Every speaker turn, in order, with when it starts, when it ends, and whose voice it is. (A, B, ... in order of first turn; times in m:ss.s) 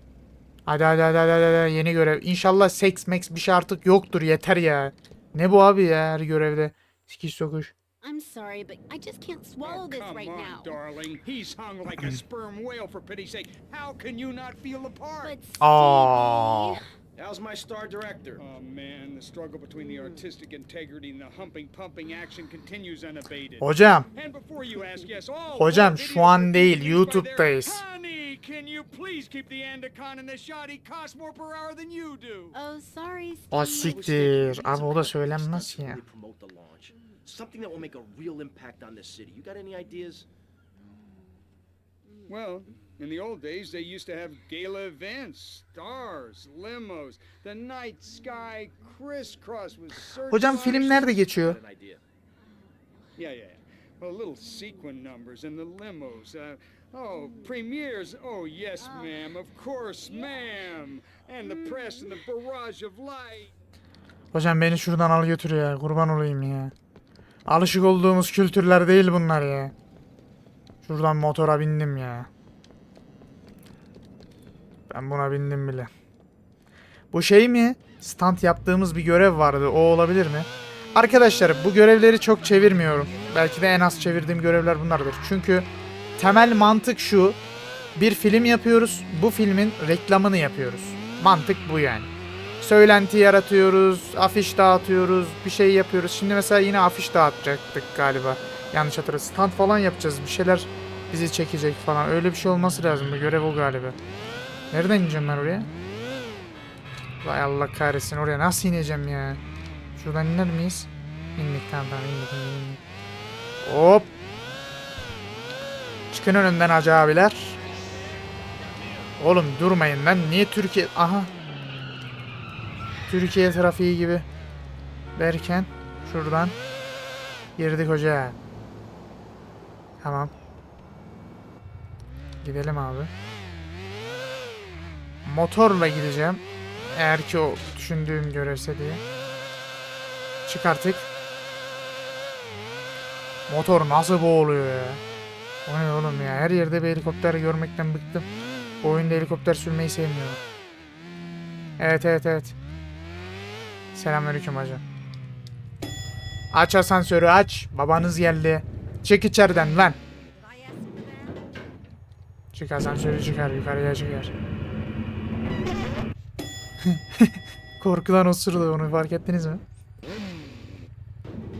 0:00.7-0:07.7 A
0:08.0-0:10.8 B
0:09.6-0:15.4 C
0:15.2-0:16.8 B
0:15.6-0:16.8 A
0:17.2-0:18.4 D
0:18.4-0:32.6 C
0:23.6-0:24.1 A
0:25.6-0:27.8 A
0:32.5-0:34.0 B
0:33.5-0:36.0 A
0:33.8-0:40.3 D
0:42.3-0:51.2 C
0:50.3-0:51.6 A
0:51.4-0:52.0 D
0:53.2-1:03.5 C
1:04.3-1:06.7 A
1:07.5-1:09.7 A
1:10.8-1:12.3 A
1:14.9-1:15.9 A
1:17.1-1:27.4 A
1:28.0-1:32.1 A
1:32.6-1:44.0 A
1:44.7-1:45.7 A
1:47.2-1:49.4 A
1:50.0-1:52.8 A
1:53.6-1:54.1 A
1:56.1-1:57.6 A
1:59.2-2:01.3 A
2:03.1-2:04.3 A
2:05.2-2:06.6 A
2:07.6-2:08.4 A
2:10.0-2:10.3 A
2:12.4-2:13.1 A
2:15.2-2:19.0 A
2:20.5-2:21.1 A
2:23.5-2:25.0 A
2:25.7-2:28.3 A
2:28.8-2:30.4 A
2:31.8-2:32.6 A
2:33.9-2:34.8 A
2:36.5-2:40.0 A
2:42.5-2:44.3 A
2:46.8-2:49.6 A